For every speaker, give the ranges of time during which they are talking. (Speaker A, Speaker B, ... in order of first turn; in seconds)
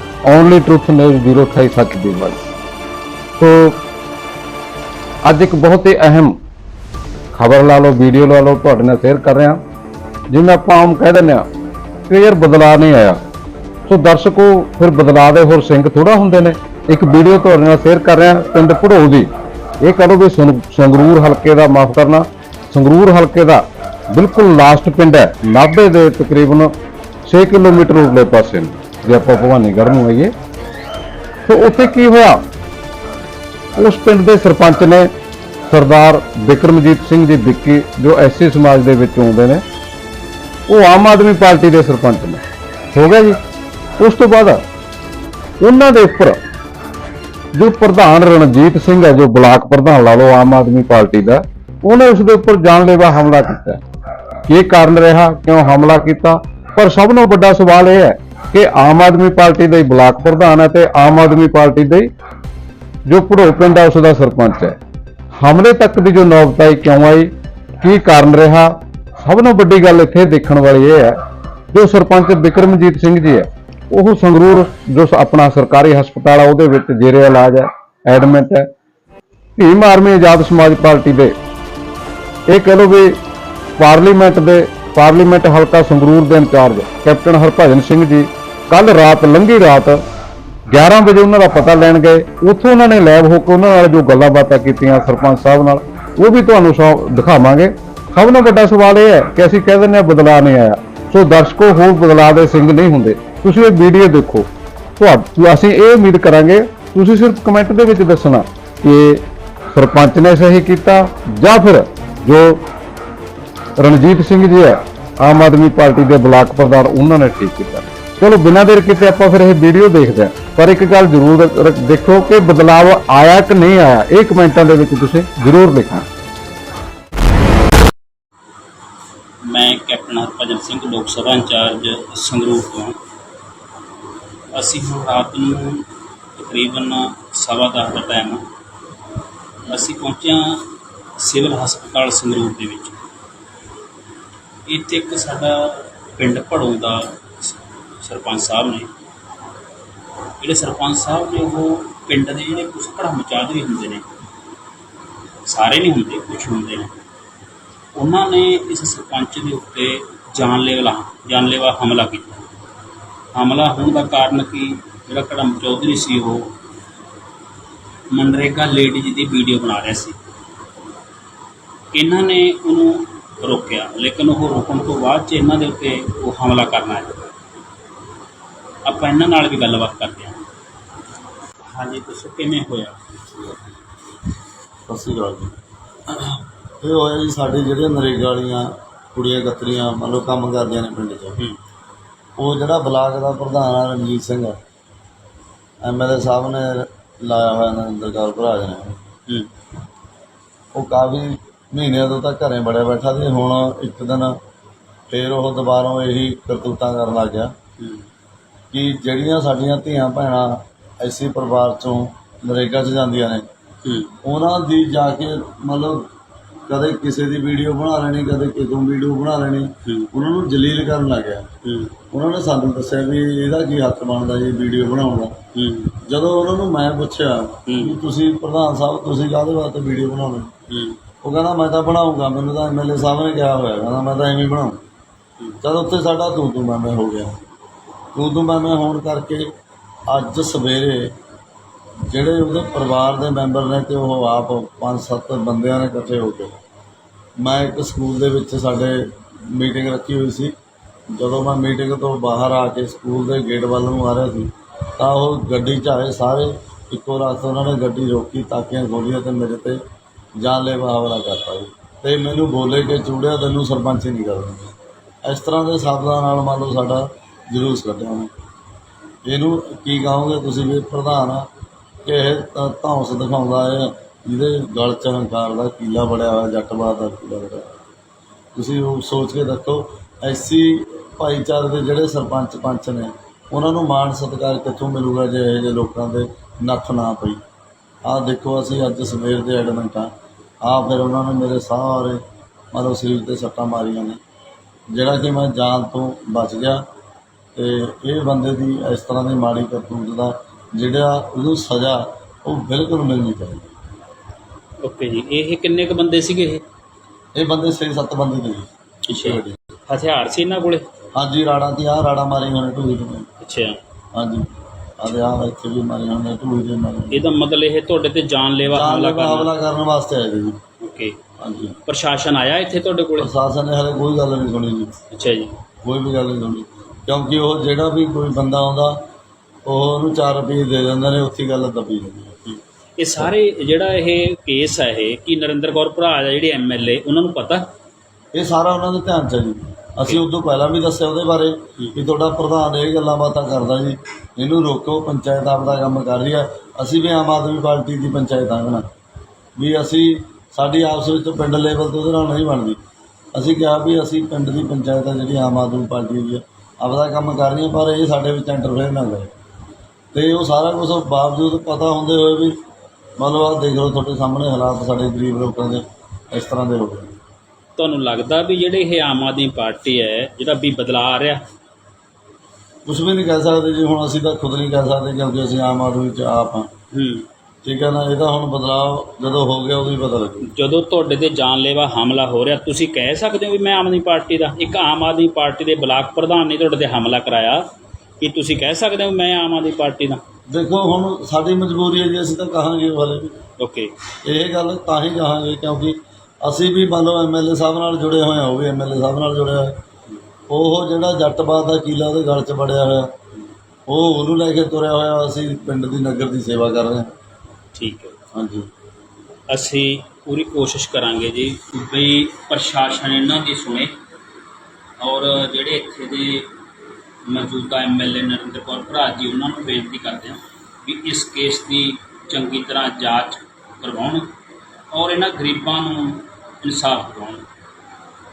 Speaker A: 0.3-2.4, 3.4-3.8, 5.3-6.3, 7.3-9.6, 10.3-11.5, 12.1-13.2, 13.9-19.3, 19.8-26.7, 27.3-30.3, 31.5-32.4, 33.8-35.1, 35.7-39.6, 40.7-42.4, 42.9-43.4, 44.0-44.6, 45.6-46.4, 47.5-53.8, 54.5-62.1, 63.1-64.8, 65.3-71.2, 71.7-78.7, 79.6-81.3, 82.5-83.2, 83.8-90.0, 90.7-112.7, 113.8-126.1
Speaker B: 129.4-133.0, 134.5-138.4, 139.7-140.7, 141.2-143.0, 144.7-148.9, 150.4-154.1, 155.5-156.9, 157.9-162.4, 163.3-166.5, 168.1-170.2, 171.9-177.2, 178.8-180.4, 181.7-183.0, 207.8-208.1, 213.8-214.1, 219.8-220.1, 221.6-221.9, 225.5-226.0, 227.7-228.0, 230.7-231.0, 304.8-306.6, 309.1-310.9, 313.4-313.8, 317.1-319.5, 320.8-321.1, 321.9-323.3, 325.1-325.6, 332.5-337.7, 367.8-371.4, 376.9-377.3, 380.4-387.6, 388.2-390.2, 393.6-393.9, 407.8-408.2, 409.5-413.9, 415.0-416.5, 417.3-424.3, 424.9-427.4
Speaker C: 184.9-185.5, 186.1-191.4, 192.4-194.6, 195.8-199.0, 200.7-204.4, 205.1-207.5, 208.7-213.5, 214.2-216.1, 216.7-221.5, 222.1-225.4, 226.1-230.5, 231.2-234.8, 235.6-237.4, 238.2-239.5, 240.1-241.2, 242.1-246.6, 247.4-250.6, 251.1-259.8, 260.4-264.7, 265.2-268.3, 269.2-271.5, 272.0-277.7, 278.6-287.4, 288.1-290.1, 290.6-292.2, 292.7-294.2, 294.9-296.8, 297.6-303.7, 307.4-309.6, 311.1-313.3, 314.1-314.5, 315.0-317.3, 318.7-320.6, 321.4-321.8, 323.2-324.9, 325.8-329.0, 329.7-332.4, 338.4-348.9, 349.6-352.8, 353.3-359.3, 360.1-362.6, 363.2-367.2, 372.9-376.7, 377.6-380.5, 390.5-393.4, 394.2-399.8, 400.5-403.1, 403.9-407.1, 408.4-408.7